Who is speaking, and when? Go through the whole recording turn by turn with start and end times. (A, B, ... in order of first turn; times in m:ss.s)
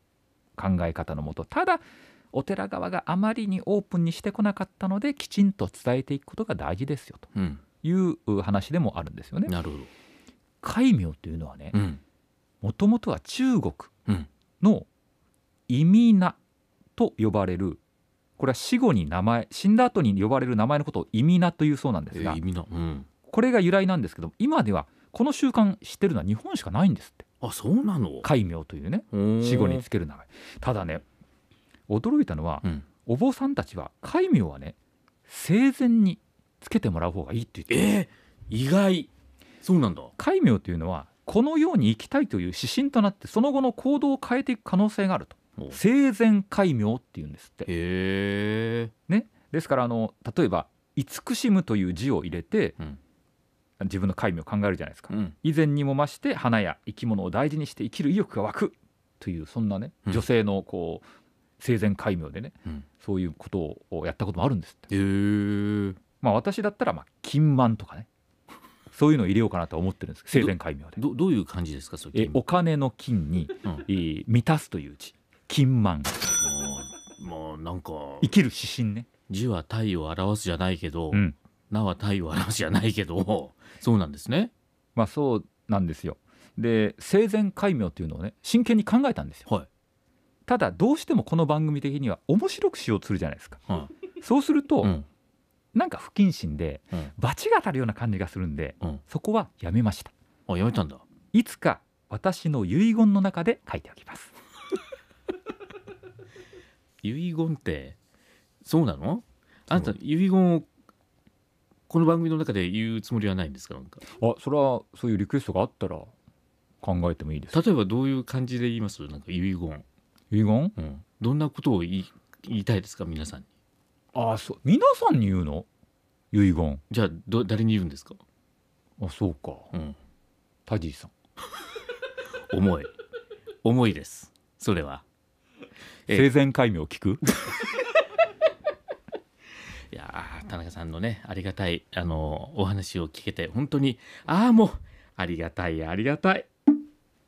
0:00.6-0:07.3 A
0:07.4-0:07.6 B
0:07.8-0:09.5 A
0:09.5-0:09.9 B
0:10.6-0:11.8 A
0:11.7-0:12.0 B
0:12.6-0:13.9 A
0:14.6-0:14.9 A
0:15.7-0:16.4 A
0:17.0-0:17.8 A
0:18.4-0:22.4 A
0:22.1-0:23.1 B
0:23.3-0:27.2 A
0:27.4-0:28.3 B
0:28.2-0:31.0 A
0:29.1-0:29.8 B
0:31.9-0:34.8 A
0:35.3-0:37.9 A
0:37.7-0:39.1 B
0:39.6-0:40.1 B
0:40.2-0:47.7 A
0:47.7-0:48.9 B
0:49.1-0:52.8 A
0:53.8-1:01.1 A
1:01.6-1:04.9 A
1:04.9-1:06.0 B
1:06.2-1:08.1 A
1:08.9-1:11.0 A
1:10.3-1:12.4 B
1:12.1-1:16.1 A
1:16.4-1:18.3 B
1:18.2-1:19.1 A
1:19.3-1:24.5 B
1:25.0-1:29.5 A
1:30.5-1:33.6 A
1:34.2-1:35.0 A
1:35.7-1:40.1 A
1:40.5-1:41.0 B
1:41.3-1:44.3 A
1:47.0-1:48.0 B
1:48.6-1:50.7 B
1:51.9-1:54.0 B
1:54.2-1:56.1 A
1:56.8-1:57.6 A
1:57.5-1:59.8 B
2:00.3-2:00.8 A
2:00.8-2:03.5 B
2:04.1-2:05.7 A
2:06.3-2:06.8 A
2:06.9-2:08.2 B
2:09.0-2:09.7 A
2:10.7-2:11.1 A
2:12.5-2:12.9 B
2:13.6-2:15.0 B
2:16.1-2:17.3 A
2:19.9-2:26.5 B